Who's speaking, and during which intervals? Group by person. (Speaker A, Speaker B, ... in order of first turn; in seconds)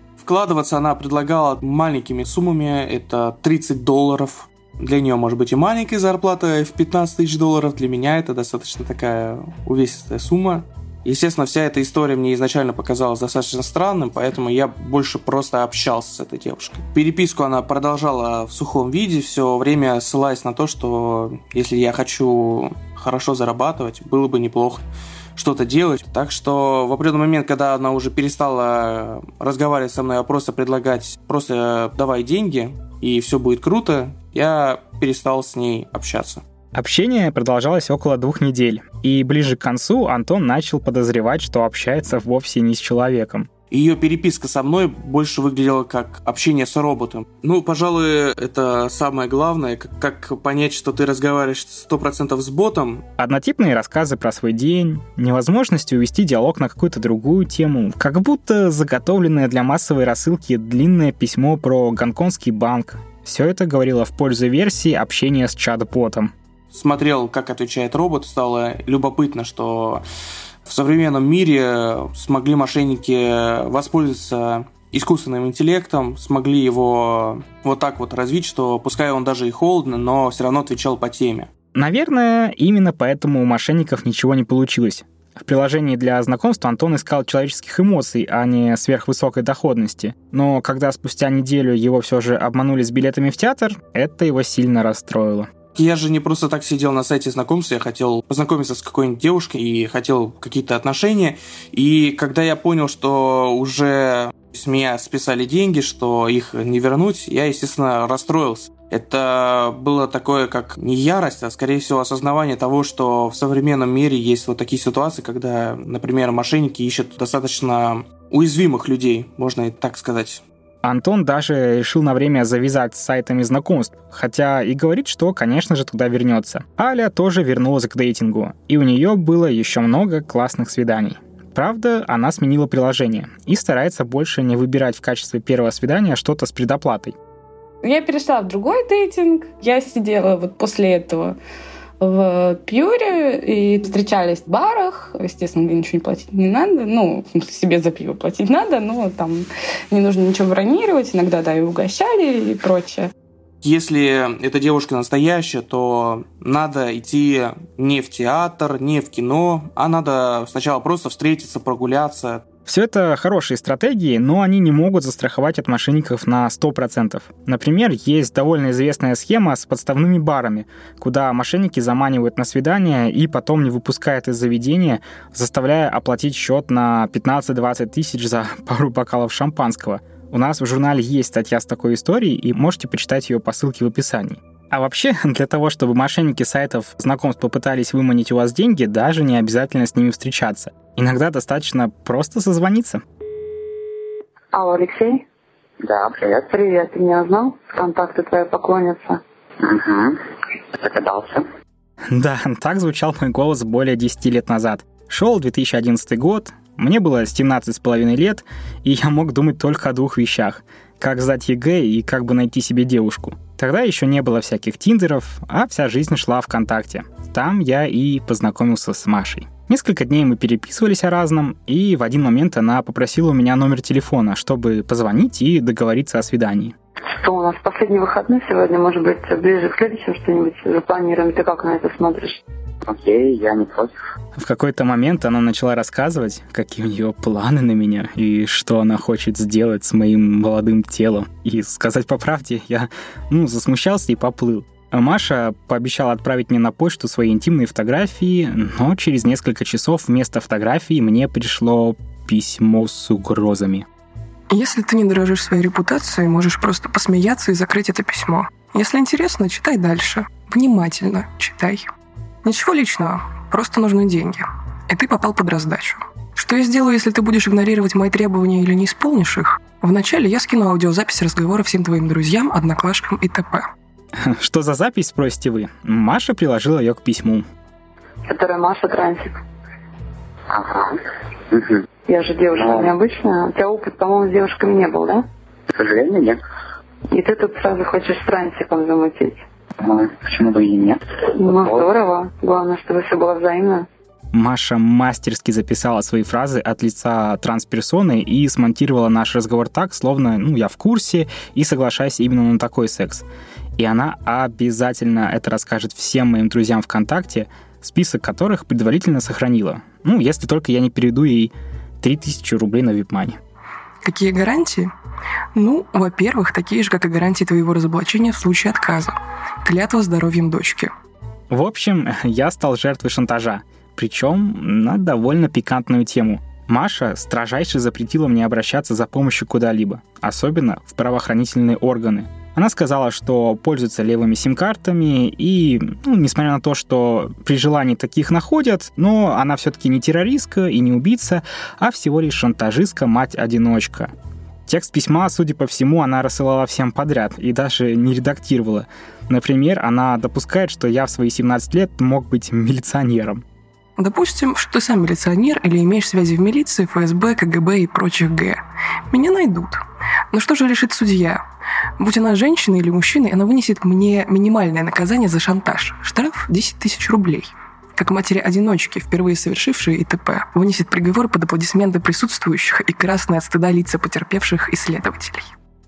Speaker A: 0.2-24.8, 25.4-36.4, 43.7-53.0, 66.7-70.0, 70.7-81.5, 95.7-120.4, 153.6-162.4
Speaker B: 36.7-43.5, 53.2-66.3, 81.7-95.5, 120.8-137.2, 162.7-193.0, 202.1-226.7, 234.3-253.8, 274.2-277.4, 294.3-303.2, 303.8-313.4, 321.5-344.1, 344.7-353.4
Speaker C: 137.8-141.3, 142.0-153.1
Speaker D: 194.5-195.2, 196.4-199.2, 227.1-232.4, 278.3-279.4, 282.1-285.2, 287.1-289.4, 291.3-293.9
Speaker E: 195.8-196.4, 199.6-200.2, 200.7-201.5, 232.8-233.9, 280.5-281.8, 282.6-282.9, 285.7-286.4, 289.8-291.8
Speaker F: 254.5-261.9, 262.4-273.7, 314.0-314.9, 315.5-320.9, 354.0-361.4, 362.0-375.5